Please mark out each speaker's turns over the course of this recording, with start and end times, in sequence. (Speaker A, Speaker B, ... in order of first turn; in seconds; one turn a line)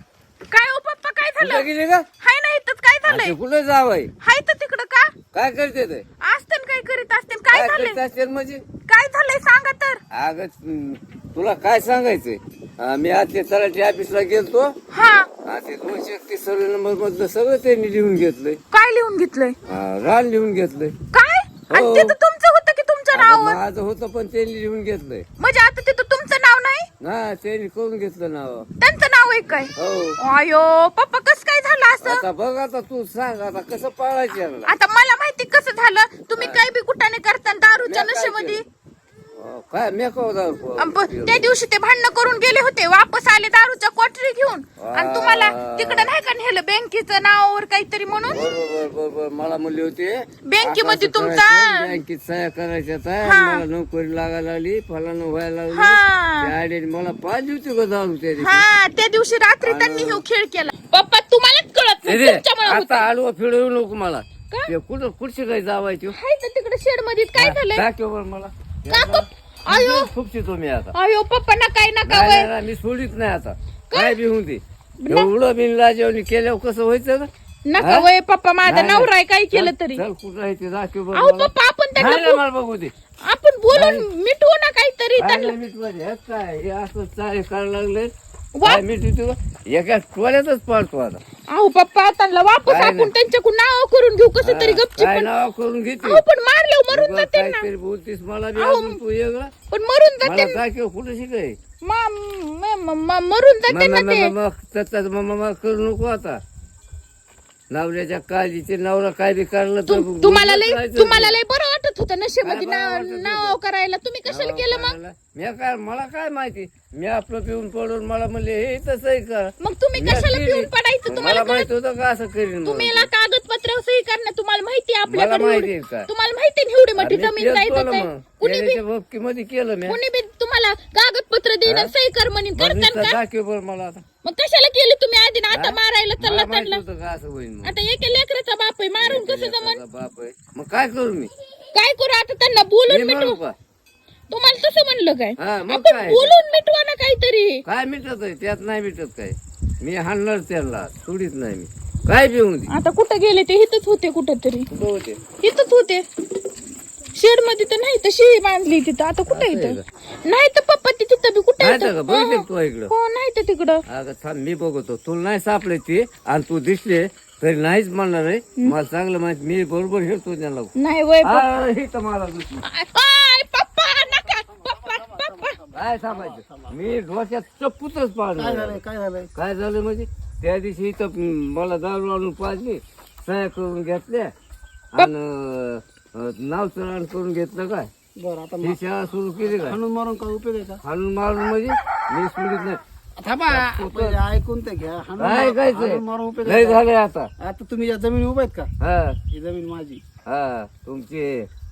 Speaker A: 0.5-3.3
Speaker B: 1.4-2.1
Speaker B: 3.0-4.1
Speaker A: 4.2-5.2
Speaker B: 5.3-6.0
Speaker A: 6.2-8.0
Speaker B: 7.5-8.7
Speaker A: 8.8-10.0
Speaker B: 10.1-14.7
Speaker A: 14.9-15.3
Speaker B: 15.3-18.6
Speaker A: 18.7-19.6
Speaker B: 19.6-21.0
Speaker A: 21.1-23.6
Speaker B: 21.7-22.2
Speaker B: 23.1-25.2
Speaker A: 25.4-26.9
Speaker B: 27.0-28.7
Speaker A: 28.8-32.3
Speaker B: 29.8-30.2
Speaker B: 32.0-34.7
Speaker A: 34.6-38.6
Speaker B: 36.4-36.6
Speaker B: 37.8-38.6
Speaker B: 39.4-41.5
Speaker A: 40.8-48.5
Speaker B: 44.8-46.1
Speaker B: 48.2-58.7
Speaker A: 50.4-52.0
Speaker A: 53.2-53.6
Speaker A: 55.7-56.5
Speaker A: 58.3-63.1
Speaker B: 59.6-60.2
Speaker B: 62.0-66.2
Speaker A: 66.1-67.8
Speaker B: 67.3-70.9
Speaker A: 68.9-70.1
Speaker A: 70.9-72.5
Speaker B: 72.0-78.1
Speaker A: 73.9-74.2
Speaker A: 75.0-75.3
Speaker A: 77.7-80.0
Speaker B: 78.6-82.9
Speaker A: 81.1-82.4
Speaker A: 83.2-85.5
Speaker B: 83.7-84.1
Speaker B: 85.2-88.1
Speaker A: 88.5-88.8
Speaker B: 88.6-91.2
Speaker A: 91.5-95.3
Speaker B: 92.7-93.1
Speaker B: 94.4-96.2
Speaker A: 96.0-97.7
Speaker B: 96.9-99.5
Speaker A: 98.5-99.0
Speaker A: 99.7-100.6
Speaker B: 100.2-101.5
Speaker A: 101.8-104.3
Speaker B: 103.7-106.4
Speaker B: 107.7-111.4
Speaker A: 109.9-115.0
Speaker B: 112.4-113.6
Speaker B: 114.2-123.1
Speaker A: 119.6-121.7
Speaker A: 122.6-128.8
Speaker B: 125.1-126.1
Speaker B: 127.0-130.0
Speaker A: 129.8-133.2
Speaker B: 131.6-131.9
Speaker B: 132.5-134.0
Speaker A: 134.2-136.8
Speaker B: 135.5-137.8
Speaker A: 137.6-139.8
Speaker B: 139.0-141.3
Speaker A: 141.7-143.4
Speaker B: 142.9-143.5
Speaker A: 144.3-147.6
Speaker B: 145.4-146.3
Speaker B: 147.7-152.7
Speaker A: 152.7-154.7
Speaker B: 154.7-155.3
Speaker A: 155.3-156.0
Speaker A: 157.2-163.8
Speaker B: 159.3-159.8
Speaker B: 161.6-162.9
Speaker B: 163.9-170.7
Speaker A: 170.8-171.5
Speaker B: 171.2-172.6
Speaker A: 172.7-175.6
Speaker C: 174.3-176.7
Speaker B: 175.7-178.8
Speaker C: 178.3-179.3
Speaker B: 179.3-184.3
Speaker B: 184.9-187.9
Speaker C: 188.2-188.8
Speaker B: 188.6-189.8
Speaker C: 189.4-190.8
Speaker B: 190.8-192.8
Speaker C: 193.2-196.8
Speaker B: 193.5-194.2
Speaker B: 195.2-197.3
Speaker C: 197.4-198.7
Speaker B: 198.8-199.2
Speaker C: 199.3-200.0
Speaker B: 200.2-201.5